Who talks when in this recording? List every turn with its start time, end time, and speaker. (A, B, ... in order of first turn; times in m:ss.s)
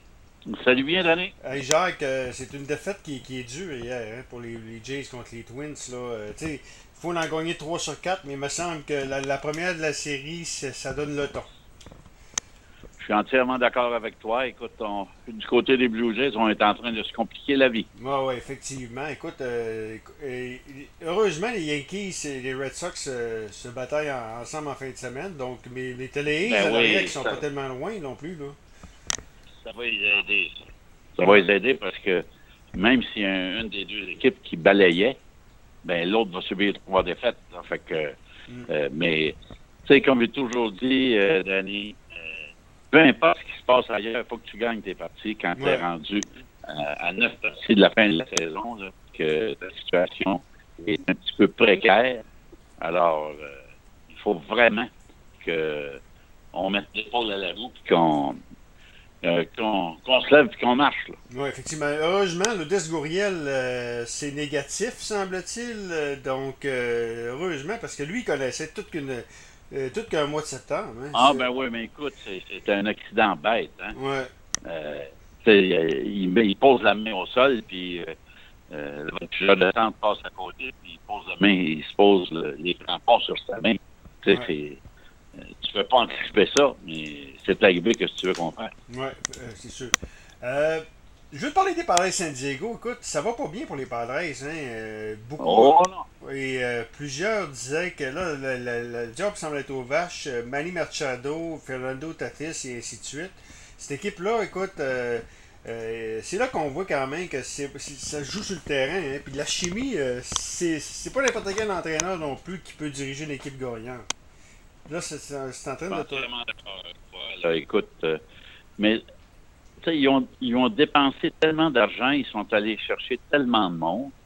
0:00.5-0:01.4 A
0:01.4-0:11.5 B
0:13.0-0:17.9 A
0:18.0-0:28.6 B
0:26.4-0:27.4 A
0:29.6-0:30.6 A
0:31.2-0:35.2 A
0:35.8-0:38.2 A
0:38.7-0:52.2 A
0:45.6-0:45.8 B
0:52.8-0:54.9 A
0:55.4-0:56.0 A
0:56.5-0:58.4 A
0:59.2-1:01.2 A
1:01.3-1:11.4 B
1:11.1-1:14.0 A
1:13.9-1:14.3 B
1:14.6-1:18.1 A
1:18.7-1:24.8 A
1:25.4-1:28.7 A
1:28.9-1:54.1 B
1:35.4-1:36.1 A
1:54.9-1:56.3 B
1:55.9-1:58.2 A
1:59.8-2:04.1 A